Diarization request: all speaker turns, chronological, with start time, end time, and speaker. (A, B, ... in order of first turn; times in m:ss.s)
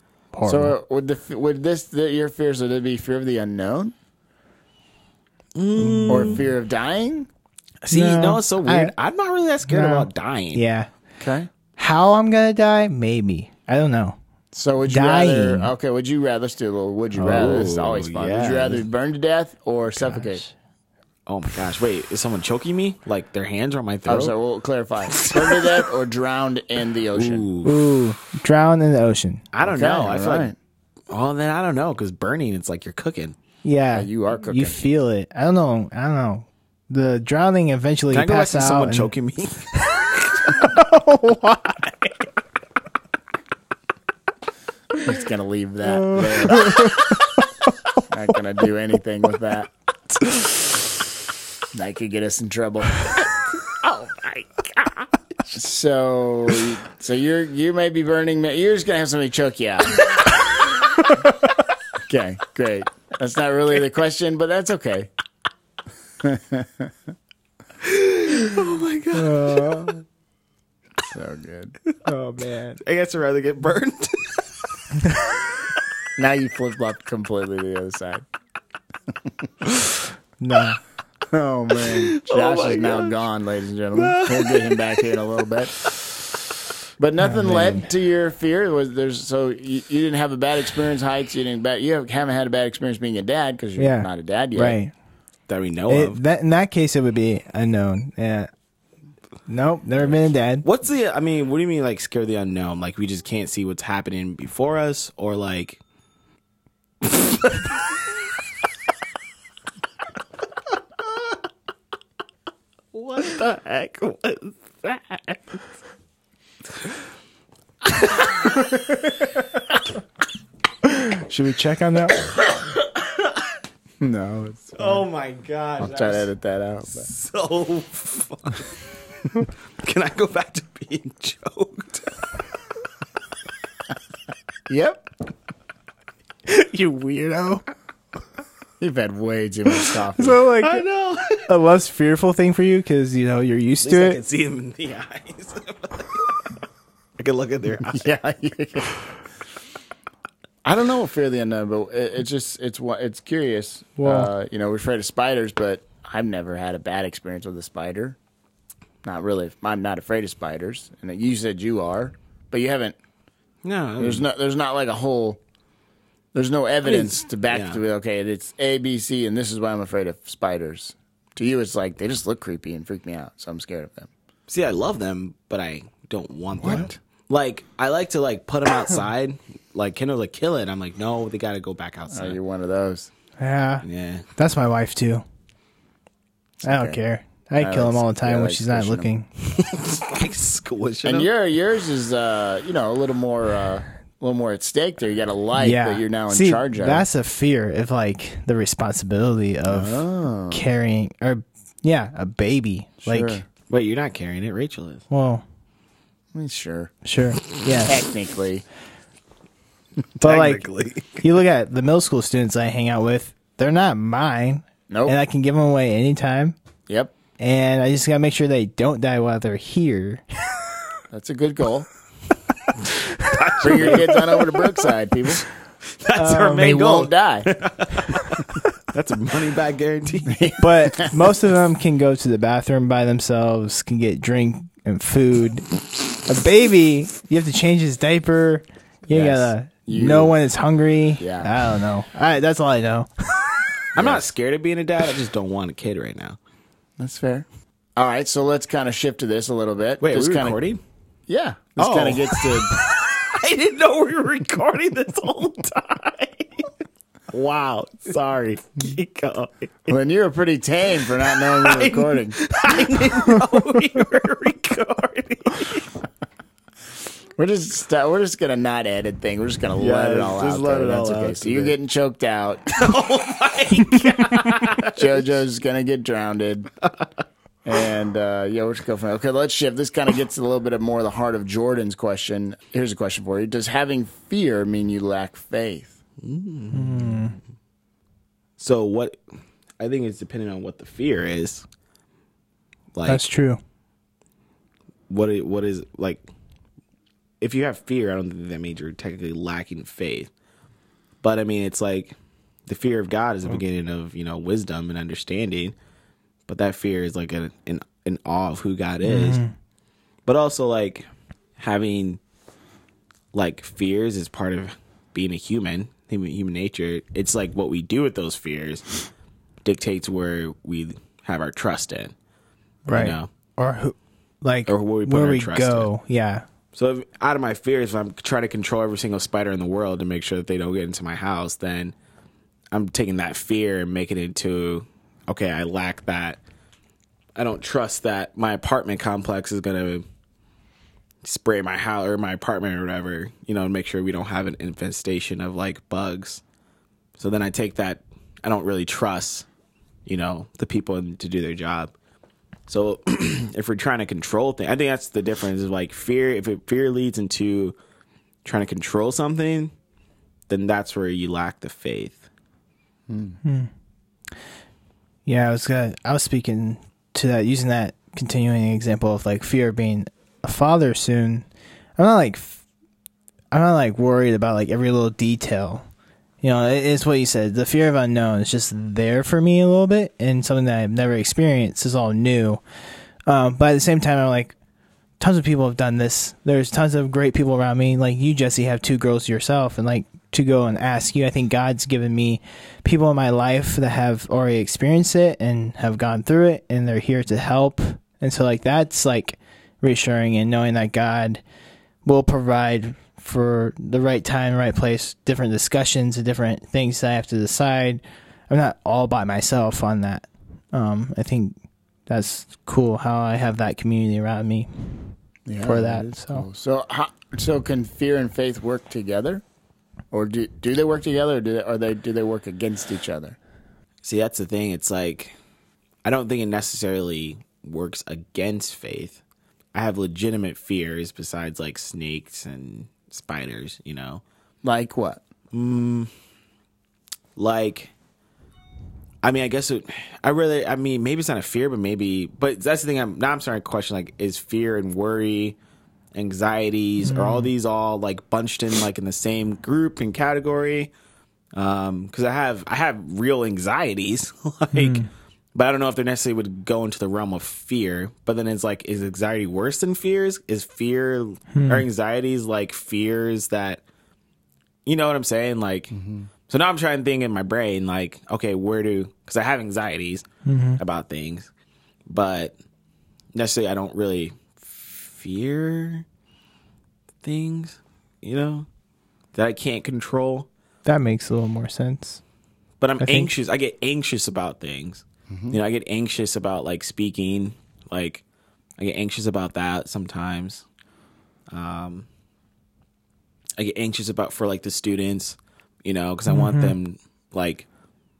0:00.3-0:00.7 A
0:00.4-0:03.9 B
0:05.5-0:06.4 C
0:05.8-0:06.4 A
0:06.1-0:07.3 B
0:07.8-0:10.6 C
0:07.9-0:08.9 A
0:09.7-0:10.9 A
0:11.2-0:11.5 B
0:11.8-0:14.2 A
0:14.5-0:20.4 B
0:14.8-0:15.7 A
0:17.2-0:17.5 A
0:17.2-0:18.8 C
0:20.0-0:20.5 A
0:21.3-0:24.3 C
0:24.0-0:27.5 B
0:25.2-0:25.7 C
0:27.1-0:28.0 C
0:27.6-0:29.4 A
0:29.5-0:30.5 C
0:29.6-0:30.6 B
0:31.1-0:33.4 C
0:33.6-0:39.1 A
0:33.9-0:34.8 B
0:38.1-0:40.7 C
0:40.5-0:41.8 A
0:45.0-0:46.8 B
0:45.8-0:47.4 A
0:48.1-0:49.7 B
0:51.7-0:53.1 B
0:53.7-0:55.0 C
0:55.5-1:00.0 B
1:02.1-1:05.1 B
1:06.2-1:06.9 B
1:07.8-1:10.0 C
1:09.2-1:09.9 A
1:11.1-1:11.7 B
1:12.0-1:12.8 A
1:12.8-1:14.4 C
1:16.2-1:18.2 B
1:20.4-1:20.8 A
1:21.3-1:25.7 B
1:21.8-1:23.2 C
1:23.9-1:25.1 C
1:27.0-1:34.8 B
1:27.2-1:27.9 A
1:33.8-1:34.9 A
1:35.5-1:36.2 C
1:35.9-1:38.5 A
1:39.5-1:40.6 A
1:40.6-1:45.8 C
1:47.0-1:47.7 C
1:52.9-1:55.6 C
1:58.0-1:58.4 C
2:00.8-2:02.3 A
2:04.0-2:05.0 B
2:04.8-2:06.3 C
2:05.8-2:07.1 B
2:06.9-2:08.7 C
2:09.8-2:12.1 C
2:14.7-2:15.0 B
2:16.5-2:17.6 A
2:18.8-2:20.4 B
2:19.8-2:20.8 A
2:20.6-2:21.5 C
2:21.4-2:24.2 A
2:23.8-2:26.4 C
2:27.2-2:28.0 C
2:27.9-2:28.9 B
2:30.6-2:38.2 B
2:34.0-2:34.3 A
2:39.0-2:43.0 B
2:43.6-2:44.2 C
2:44.0-2:45.4 B
2:46.3-2:54.1 B
2:46.8-2:47.8 C
2:54.5-3:02.4 C
2:56.6-2:57.0 B
3:02.1-3:03.1 B
3:03.4-3:05.2 A
3:03.8-3:04.2 C
3:06.6-3:07.0 B
3:06.6-3:09.3 A
3:07.6-3:09.1 B
3:09.6-3:11.3 C
3:11.0-3:17.0 B
3:15.6-3:23.4 A
3:19.6-3:20.6 B
3:23.0-3:23.4 B
3:23.7-3:25.0 C
3:25.1-3:25.4 A
3:26.3-3:26.9 B
3:27.0-3:28.0 A
3:27.8-3:28.6 B
3:30.2-3:30.6 A
3:30.2-3:31.2 C
3:31.2-3:36.6 A
3:34.9-3:35.2 B
3:36.9-3:37.1 B
3:37.4-3:40.2 A
3:41.1-3:41.9 B
3:43.2-3:44.7 C
3:43.6-3:45.4 B
3:46.0-3:50.4 C
3:46.1-3:46.8 A
3:46.5-3:47.5 B
3:50.3-3:51.2 B
3:50.6-3:55.6 A
3:56.2-4:03.1 A
3:59.1-4:00.4 B
4:01.2-4:01.5 B
4:03.9-4:06.4 C
4:04.0-4:04.2 B
4:07.0-4:10.6 B
4:10.0-4:10.8 C
4:11.3-4:12.7 B
4:11.8-4:16.7 C
4:17.3-4:19.9 C
4:19.9-4:22.4 B
4:21.2-4:25.9 C
4:27.4-4:32.8 B
4:29.7-4:31.7 C
4:32.7-4:35.2 C
4:34.9-4:36.7 B
4:37.6-4:45.9 B
4:46.2-4:47.3 C
4:46.7-4:47.3 A
4:48.6-4:49.2 C
4:49.8-4:51.6 C
4:52.9-4:53.2 C
4:53.0-4:53.6 A
4:55.1-4:56.2 C
4:57.4-5:00.3 C
5:01.2-5:02.1 C
5:02.7-5:05.7 C
5:06.5-5:09.4 C
5:09.0-5:09.5 A
5:10.2-5:11.0 C
5:11.6-5:12.2 C
5:13.3-5:19.0 C
5:19.6-5:22.1 C
5:22.9-5:26.4 A
5:22.9-5:23.3 C
5:24.7-5:25.9 C
5:26.7-5:31.9 C
5:32.7-5:36.4 C
5:37.4-5:40.0 C
5:41.2-5:46.4 C
5:47.2-5:49.4 C
5:50.0-5:51.9 C
5:52.7-5:57.8 C
5:58.4-5:59.7 C
6:00.5-6:02.3 C
6:03.1-6:03.4 B
6:03.4-6:03.7 A
6:05.2-6:11.4 A
6:12.0-6:12.6 A
6:13.5-6:15.8 A
6:16.4-6:22.6 A
6:23.2-6:24.5 A
6:25.2-6:41.4 A
6:42.0-6:56.4 A
6:55.5-6:59.4 B
7:00.1-7:03.4 B
7:04.0-7:05.3 C
7:06.0-7:09.2 C
7:09.7-7:14.2 C
7:14.6-7:15.2 B
7:15.5-7:16.1 C
7:17.4-7:17.9 C
7:19.2-7:25.6 C
7:26.1-7:30.9 C
7:27.0-7:27.5 A
7:31.6-7:43.8 C
7:34.7-7:35.1 A
7:41.5-7:41.8 A
7:44.8-7:45.9 C
7:45.9-7:46.3 B
7:46.5-7:50.2 C
7:50.4-7:50.8 A
7:50.8-7:51.5 C
7:52.1-7:52.5 C
7:53.3-7:56.0 C
7:57.2-7:58.6 C
7:59.3-8:00.5 C
8:00.8-8:02.2 A
8:02.8-8:08.2 C
8:03.0-8:03.3 A
8:05.3-8:05.6 B
8:08.8-8:10.6 C
8:11.5-8:12.1 C
8:13.6-8:17.6 C
8:16.3-8:16.8 A